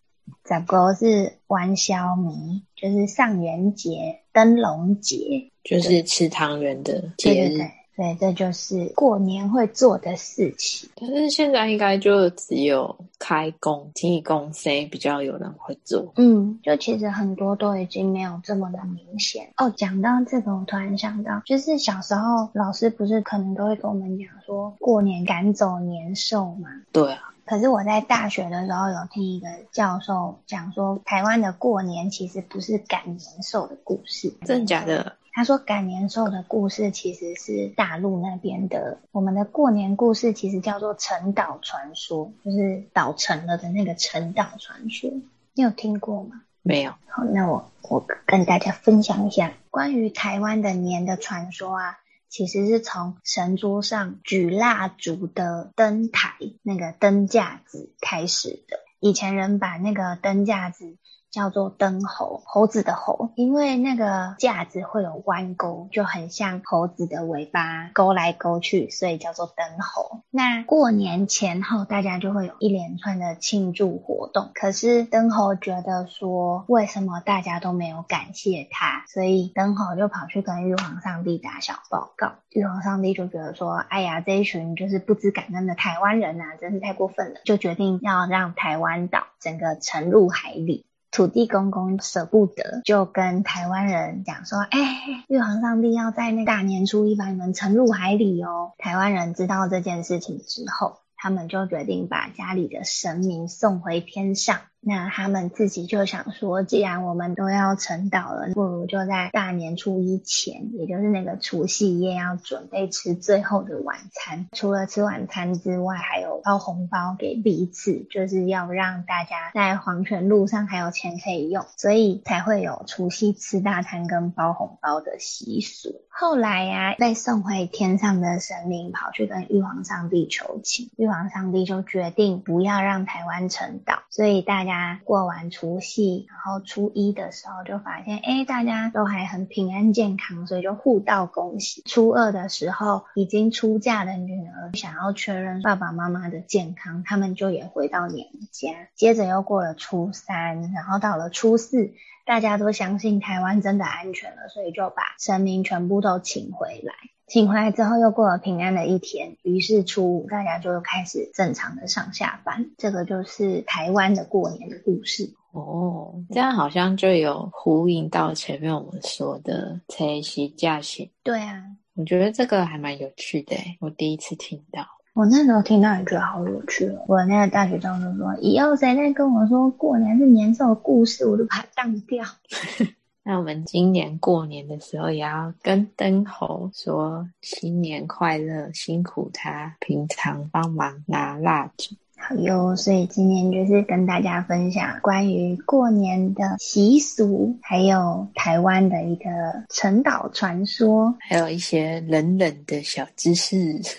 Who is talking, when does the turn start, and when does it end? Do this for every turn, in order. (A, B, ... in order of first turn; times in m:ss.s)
0:00.5-0:06.0 A
0:05.6-0:07.7 B
0:07.2-0:10.9 A
0:11.0-0:16.1 B
0:16.2-0:26.8 A
0:26.9-0:27.2 B
0:27.5-0:46.4 A
0:34.5-0:35.2 B
0:46.6-0:47.0 B
0:47.1-2:45.3 A
2:45.5-2:51.1 B
2:51.3-2:51.8 A
2:52.0-2:54.9 B
2:55.2-3:02.3 A
3:03.2-3:11.9 B
3:12.2-3:21.2 A
3:21.2-3:23.8 B